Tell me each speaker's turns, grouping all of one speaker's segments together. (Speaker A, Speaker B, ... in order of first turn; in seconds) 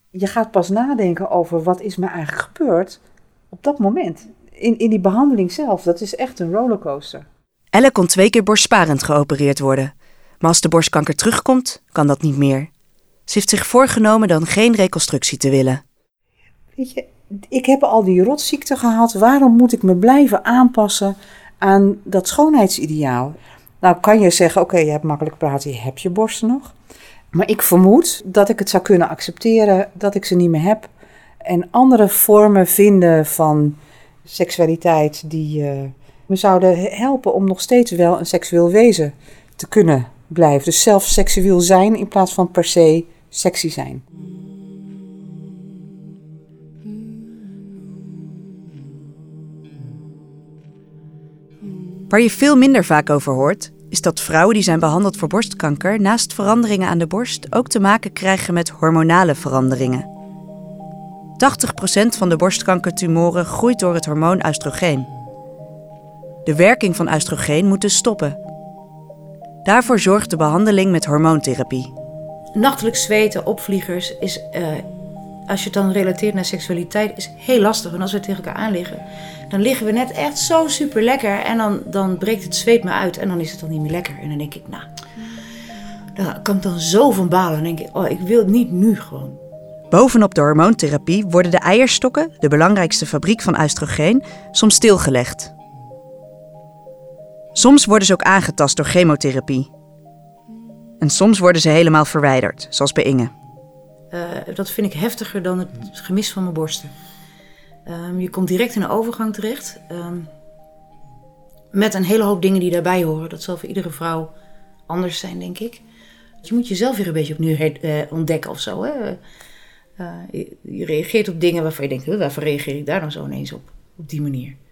Speaker A: 0.1-3.0, 3.5-7.3, 16.8-26.7, 27.3-30.9, 31.4-44.0
Speaker B: 7.7-12.7, 13.3-15.8, 52.1-60.1, 61.4-65.1, 66.5-68.4, 69.7-71.9, 89.9-95.5, 97.5-99.7, 101.0-103.3
Speaker C: 72.5-74.9, 75.5-84.9, 86.2-89.4, 104.1-106.9, 107.9-110.3, 111.7-114.3, 114.9-115.8, 116.4-119.2, 120.0-124.6